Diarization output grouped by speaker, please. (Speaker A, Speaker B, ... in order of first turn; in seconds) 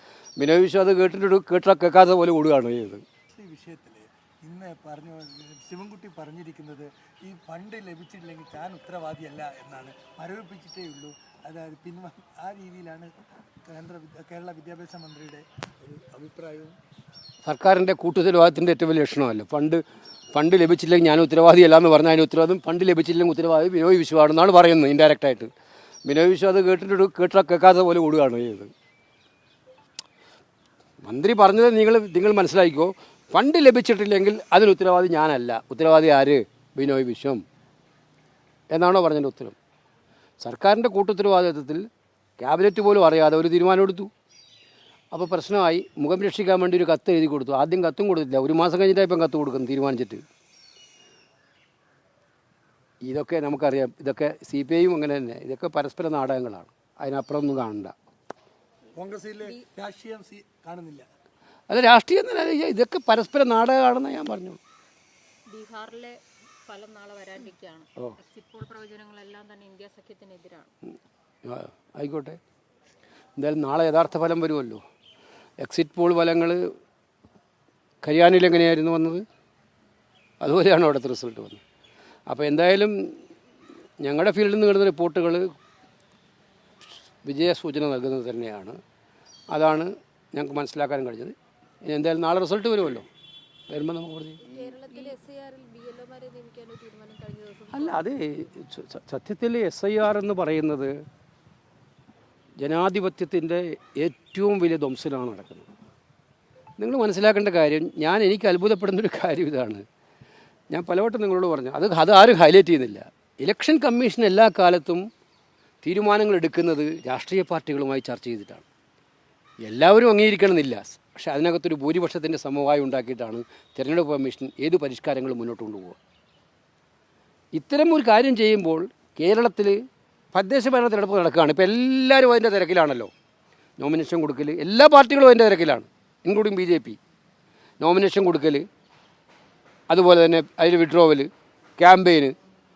Speaker A: 0.4-3.0, 17.4-25.5, 26.1-28.7, 31.0-37.4, 38.7-39.6, 40.4-41.9, 42.4-44.1, 45.1-50.2, 53.0-58.0, 61.7-64.6, 71.4-72.4, 73.4-74.8, 75.6-76.7, 78.0-79.2, 80.4-81.6, 82.3-83.2, 84.0-85.5, 87.2-88.8, 89.5-93.1, 93.7-94.5, 97.7-101.0, 102.6-105.7, 106.8-109.8, 110.7-115.1, 115.8-118.7, 119.7-126.0, 127.5-129.8, 130.3-133.1, 133.8-137.0, 137.8-138.7, 139.9-142.3
Speaker B: 3.4-13.1, 13.7-16.8, 59.0-61.1
Speaker C: 65.5-70.7, 94.4-98.1